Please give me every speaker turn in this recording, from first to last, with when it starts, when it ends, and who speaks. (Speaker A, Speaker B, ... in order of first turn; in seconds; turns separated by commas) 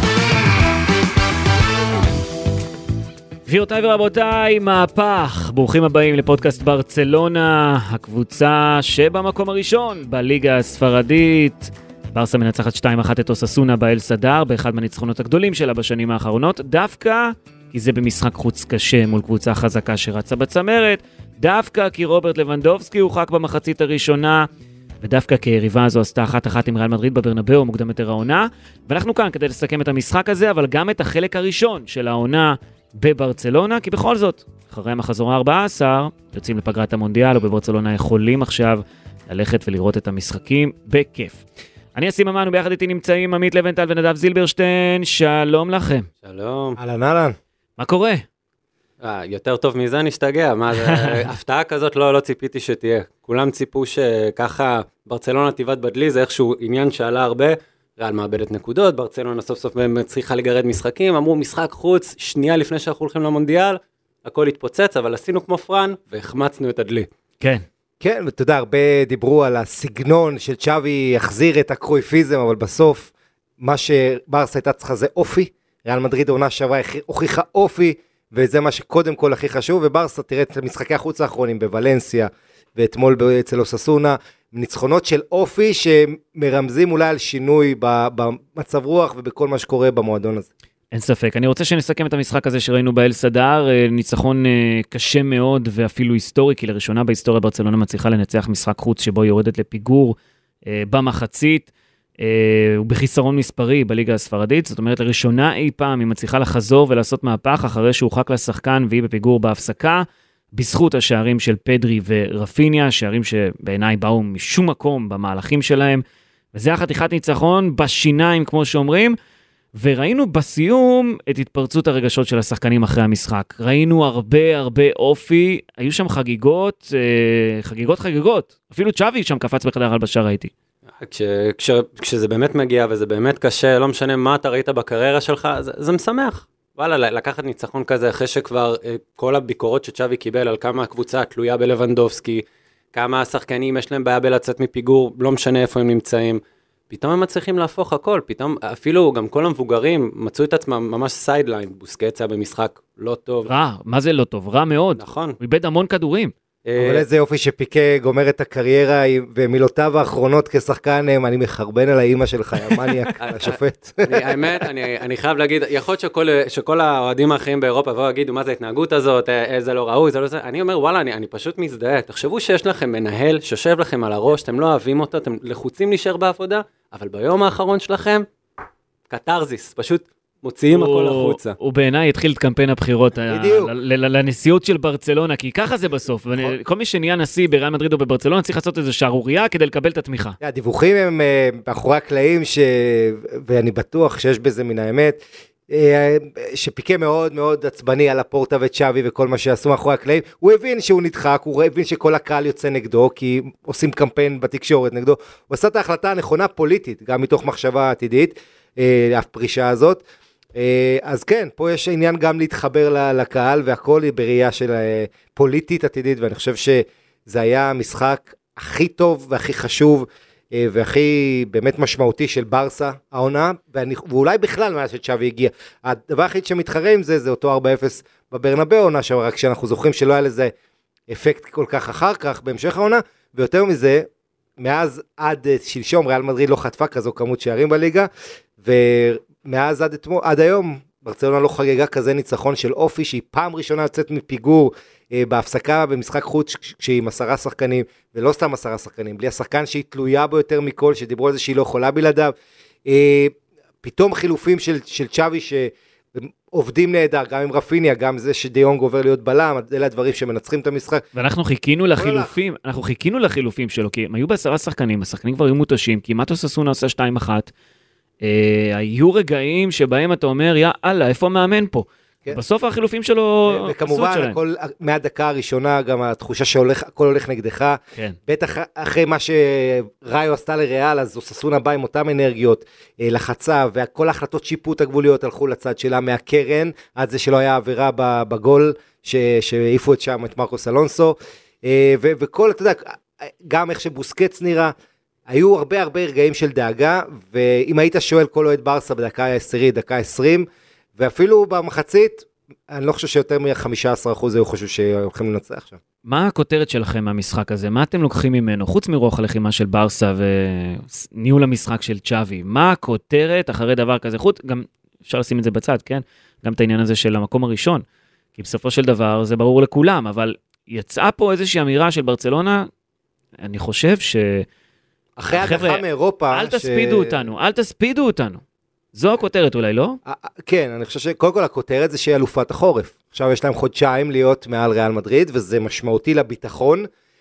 Speaker A: 3.5-24.5, Speaker A: 25.0-41.4, Speaker A: 41.9-46.1, Speaker B: 46.2-46.8, Speaker C: 46.8-47.4, Speaker A: 47.8-48.2, Speaker B: 49.0-67.1, Speaker A: 50.7-51.2, Speaker C: 68.0-90.5, Speaker A: 90.9-119.2, Speaker A: 119.7-130.5, Speaker B: 131.0-153.5, Speaker A: 153.4-156.3, Speaker B: 155.0-155.4, Speaker B: 156.7-157.0, Speaker C: 156.8-164.7, Speaker B: 163.2-178.2, Speaker B: 179.1-181.6, Speaker A: 180.7-190.4, Speaker C: 183.3-183.7, Speaker C: 190.4-210.0, Speaker C: 210.5-230.5, Speaker C: 231.1-234.1, Speaker C: 234.6-238.1, Speaker C: 238.6-252.3, Speaker C: 252.8-261.0, Speaker A: 261.1-267.5, Speaker C: 261.9-262.3, Speaker A: 268.2-274.4, Speaker C: 273.4-294.7, Speaker C: 295.3-305.8, Speaker A: 306.0-317.8, Speaker A: 318.4-322.7, Speaker A: 323.4-324.4, Speaker C: 325.2-327.2, Speaker A: 325.3-328.4, Speaker A: 328.9-330.0, Speaker C: 330.0-336.9